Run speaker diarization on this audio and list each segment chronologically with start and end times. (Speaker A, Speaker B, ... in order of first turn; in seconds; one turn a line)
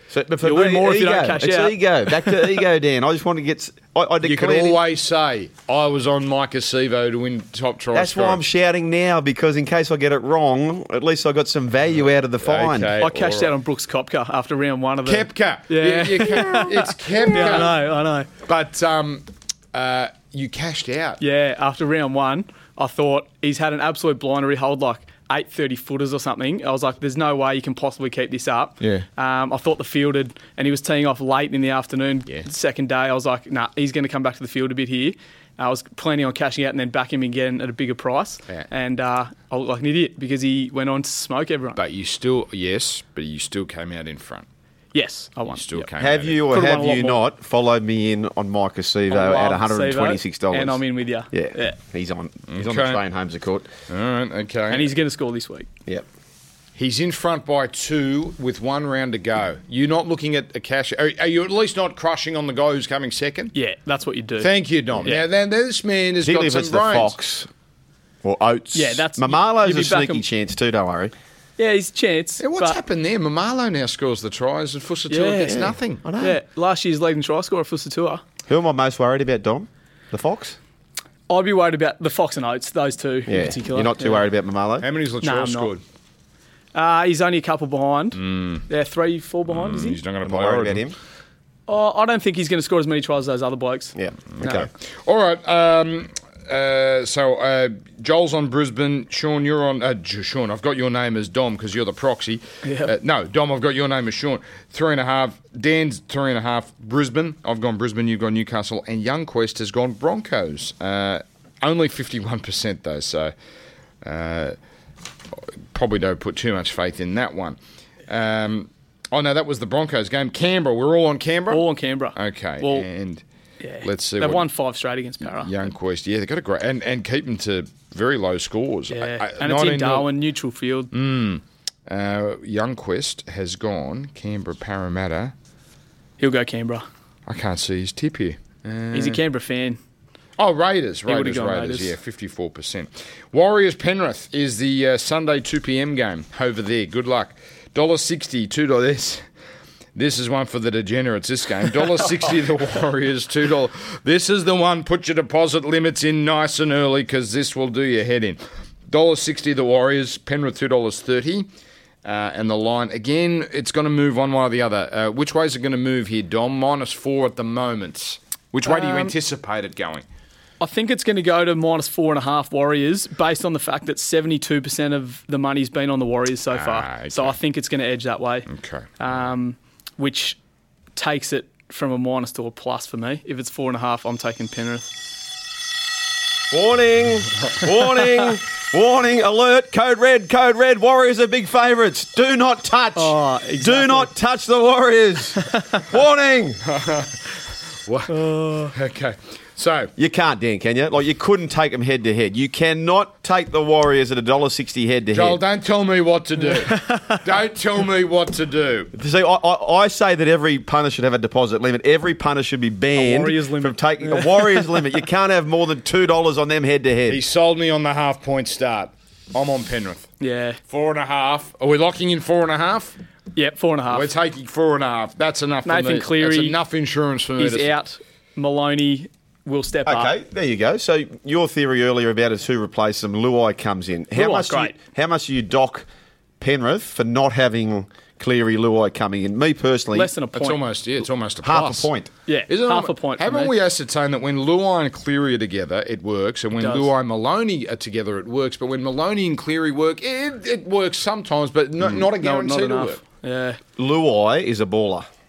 Speaker A: 0.1-4.8
Speaker B: 0.4-2.6
Speaker C: 4.2-8.4
Speaker A: 7.9-12.9
Speaker C: 12.4-13.5
Speaker B: 13.0-18.3
Speaker C: 15.1-17.8
Speaker C: 18.4-21.2
Speaker B: 21.2-41.8
Speaker C: 41.8-44.5
Speaker B: 44.9-45.9
Speaker C: 45.5-46.4
Speaker A: 46.0-50.8
Speaker B: 46.5-47.2
Speaker B: 49.1-51.8
Speaker A: 51.3-53.7
Speaker C: 52.5-53.0
Speaker C: 53.9-54.9
Speaker B: 54.7-55.7
Speaker C: 56.8-63.5
Speaker B: 63.5-64.5
Speaker C: 64.4-67.1
Speaker A: 66.2-67.5
Speaker A: 68.2-71.1
Speaker B: 68.7-70.2
Speaker B: 71.6-72.8
Speaker C: 72.4-76.0
Speaker B: 75.1-78.2
Speaker A: 75.5-76.4
Speaker A: 78.5-80.6
Speaker B: 81.3-84.2
Speaker A: 83.3-84.9
Speaker C: 84.8-85.8
Speaker B: 85.2-85.7
Speaker B: 86.7-90.0
Speaker C: 88.1-88.7
Speaker C: 89.5-90.8
Speaker A: 90.2-91.0
Speaker B: 91.7-94.0
Speaker A: 94.0-94.7
Speaker C: 94.3-113.3
Speaker B: 102.6-102.9
Speaker C: 114.0-114.6
Speaker C: 115.7-117.6
Speaker C: 118.1-123.2
Speaker B: 121.5-122.9
Speaker B: 123.6-125.5
Speaker C: 123.8-124.5
Speaker C: 125.4-130.1
Speaker B: 128.9-130.9
Speaker C: 130.9-135.3
Speaker B: 136.2-136.8
Speaker C: 137.3-139.2
Speaker B: 138.9-139.8
Speaker C: 140.4-149.2
Speaker B: 141.1-141.9
Speaker C: 149.9-161.5
Speaker C: 162.0-170.1
Speaker B: 168.7-169.1
Speaker B: 170.6-178.5
Speaker C: 176.5-177.3
Speaker C: 178.5-178.9
Speaker B: 179.0-180.4
Speaker B: 181.0-184.9
Speaker A: 186.5-196.6
Speaker B: 193.0-194.1
Speaker C: 196.6-199.9
Speaker B: 198.1-198.7
Speaker A: 200.0-205.4
Speaker C: 205.1-208.9
Speaker B: 206.6-207.2
Speaker A: 208.9-217.2
Speaker B: 212.9-214.9
Speaker C: 217.1-220.1
Speaker B: 220.2-220.6
Speaker C: 220.7-223.0
Speaker B: 223.3-224.1
Speaker C: 223.9-227.7
Speaker B: 225.6-226.6
Speaker B: 227.4-230.1
Speaker A: 229.9-235.9
Speaker B: 234.1-234.8
Speaker A: 236.4-240.1
Speaker B: 239.9-240.6
Speaker C: 240.3-241.9
Speaker A: 241.4-242.1
Speaker B: 242.3-243.5
Speaker C: 242.5-253.0
Speaker B: 246.6-246.9
Speaker B: 252.0-253.6
Speaker A: 253.8-255.1